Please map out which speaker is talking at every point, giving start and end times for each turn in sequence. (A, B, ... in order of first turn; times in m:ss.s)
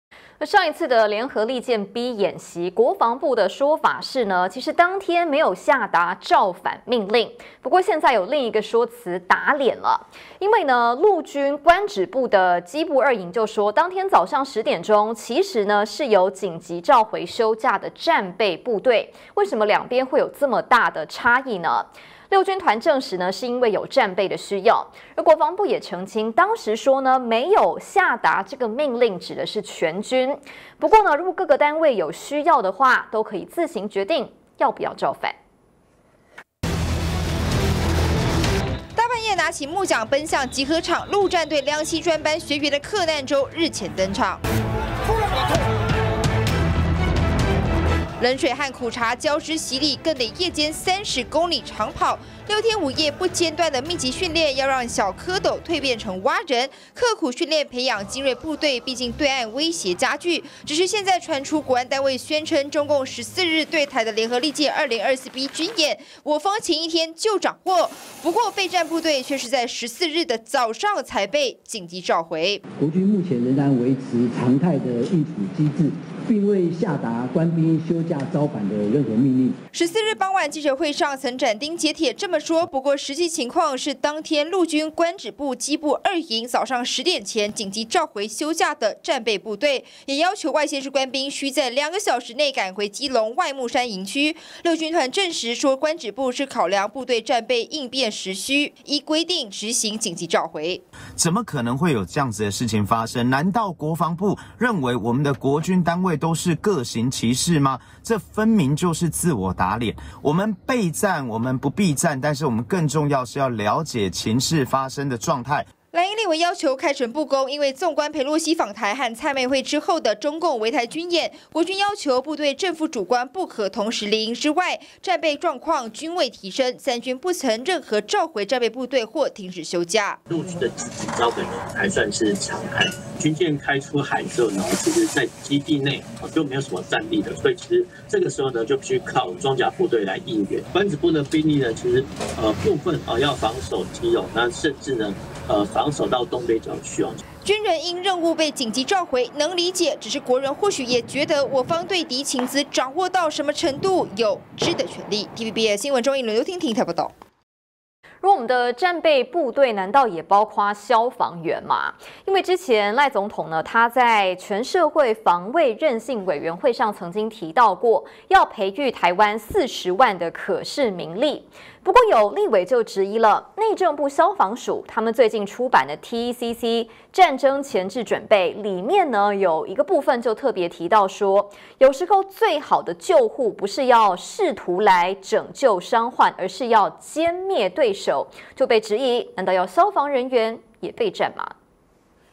0:00.4-0:35.4 A
0:38.9-0:44.4 B
0:48.2-1:12.6 B
1:12.8-1:19.6 C
1:19.7-1:40.8 B
1:41.2-1:55.7 D
1:55.9-2:10.2 B
2:10.3-2:27.2 E
2:27.4-2:37.1 B
2:38.2-3:11.5 A